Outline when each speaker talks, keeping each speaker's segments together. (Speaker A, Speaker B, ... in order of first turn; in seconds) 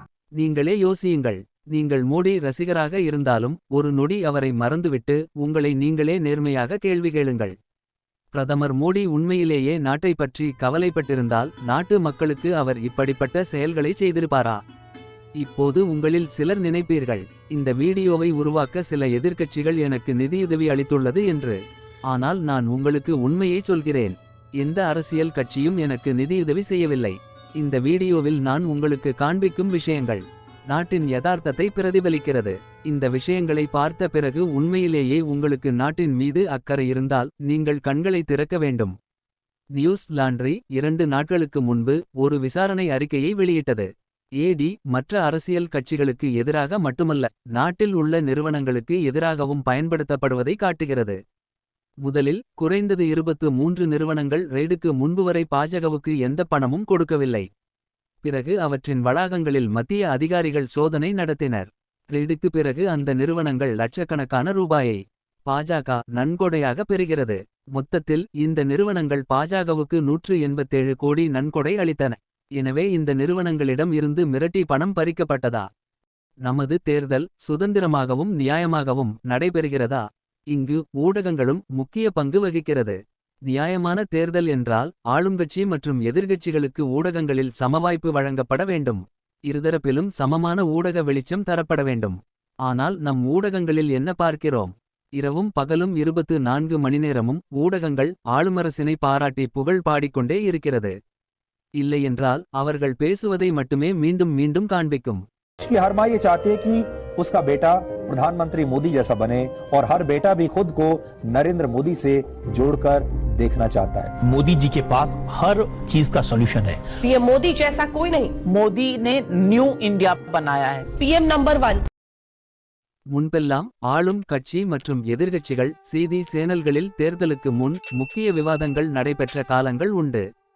Speaker A: 0.4-7.5, 8.3-14.6, 15.4-21.6, 22.1-38.9, 39.8-51.2, 52.0-57.5, 58.2-75.7, 76.4-101.0, 101.8-105.2, 123.1-130.2
Speaker B: 105.6-114.1
Speaker C: 114.2-116.8
Speaker D: 117.0-118.3, 121.0-121.8
Speaker E: 118.4-120.9